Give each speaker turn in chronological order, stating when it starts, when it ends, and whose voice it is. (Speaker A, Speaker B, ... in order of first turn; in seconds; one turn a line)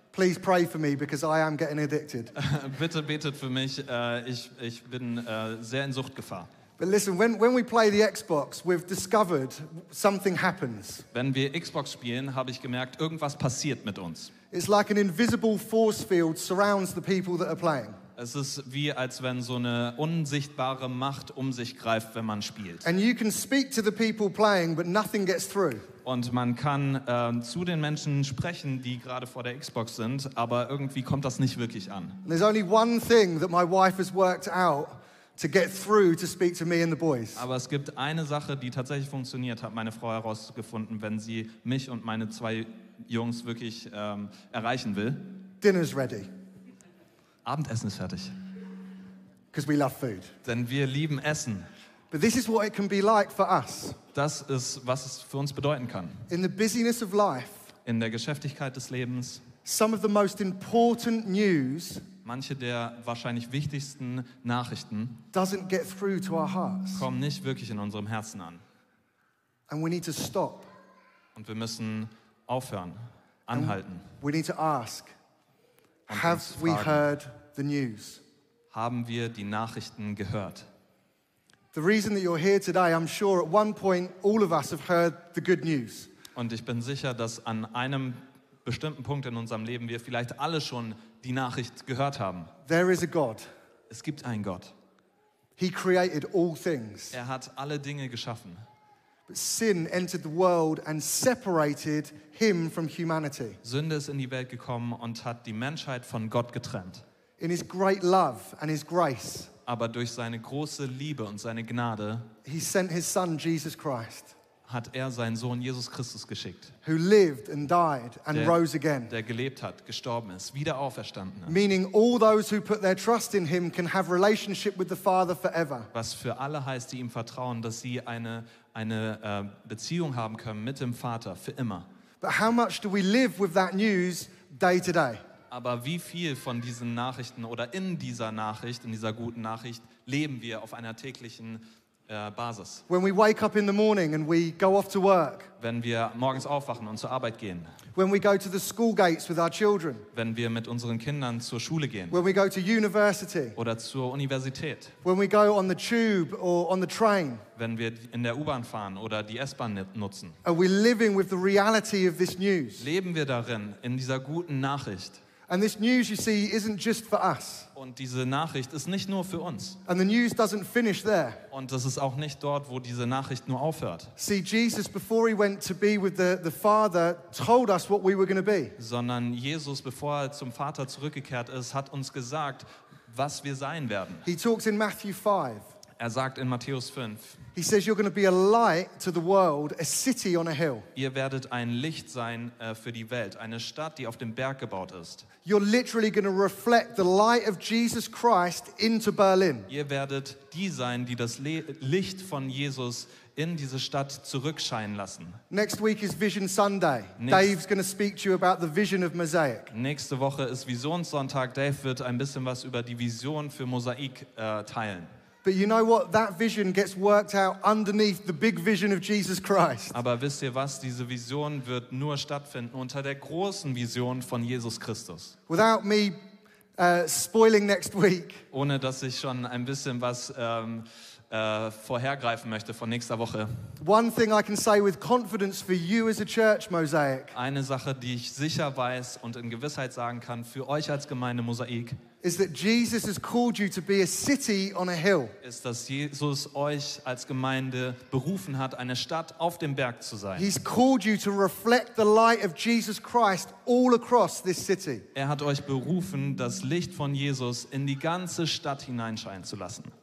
Speaker A: 0.1-2.3
Speaker B: 2.3-6.5
Speaker A: 6.8-11.1
Speaker B: 11.1-14.3
Speaker A: 14.5-18.0
Speaker B: 18.1-22.8
Speaker A: 22.8-25.9
Speaker B: 26.0-32.2
Speaker A: 32.2-37.5
Speaker B: 37.4-45.4
Speaker A: 45.6-46.3
Speaker B: 47.4-48.4
Speaker A: 49.5-50.3
Speaker B: 50.4-51.7
Speaker A: 52.1-54.0
Speaker B: 54.1-56.2
Speaker A: 56.3-57.7
Speaker B: 57.8-59.5
Speaker A: 59.6-62.0
Speaker B: 62.2-65.2
Speaker A: 65.3-67.0
Speaker B: 66.9-68.6
Speaker A: 69.7-70.7
Speaker B: 71.3-74.1
Speaker A: 73.5-75.1
Speaker B: 76.1-77.1
Speaker A: 76.1-78.2
Speaker B: 78.7-80.7
Speaker A: 81.7-86.1
Speaker B: 86.3-92.5
Speaker A: 92.7-93.5
Speaker B: 93.9-94.7
Speaker A: 95.6-97.2
Speaker B: 97.1-98.6
Speaker A: 99.3-103.6
Speaker B: 103.6-107.0
Speaker A: 107.4-109.5
Speaker B: 109.7-112.3
Speaker A: 112.4-114.3
Speaker B: 114.6-116.7
Speaker A: 116.8-119.1
Speaker B: 118.3-121.5
Speaker A: 121.5-125.9
Speaker B: 125.9-131.9
Speaker A: 132.2-135.2
Speaker B: 135.5-142.8
Speaker A: 142.9-145.5
Speaker B: 145.6-147.7
Speaker A: 147.9-150.1
Speaker B: 150.1-152.2
Speaker A: 152.1-153.6
Speaker B: 153.6-154.9
Speaker A: 155.0-157.4
Speaker B: 157.6-160.4
Speaker A: 160.4-162.9
Speaker B: 162.8-165.2
Speaker A: 165.5-167.7
Speaker B: 167.7-169.8
Speaker A: 169.8-171.4
Speaker B: 171.5-174.1
Speaker A: 174.2-178.8
Speaker B: 178.8-184.2
Speaker A: 184.2-185.7
Speaker B: 186.0-187.4
Speaker A: 187.5-190.9
Speaker B: 190.9-195.3
Speaker A: 195.4-199.7
Speaker B: 199.7-205.4
Speaker A: 205.5-209.7
Speaker B: 207.2-207.6
Speaker B: 209.7-215.1
Speaker A: 215.4-220.0
Speaker B: 219.9-225.3
Speaker A: 225.5-226.2
Speaker A: 226.8-228.4
Speaker B: 228.5-233.5
Speaker A: 233.8-237.3
Speaker B: 237.3-242.0
Speaker A: 242.2-245.3
Speaker B: 245.4-250.5
Speaker A: 250.3-255.1
Speaker B: 255.1-259.9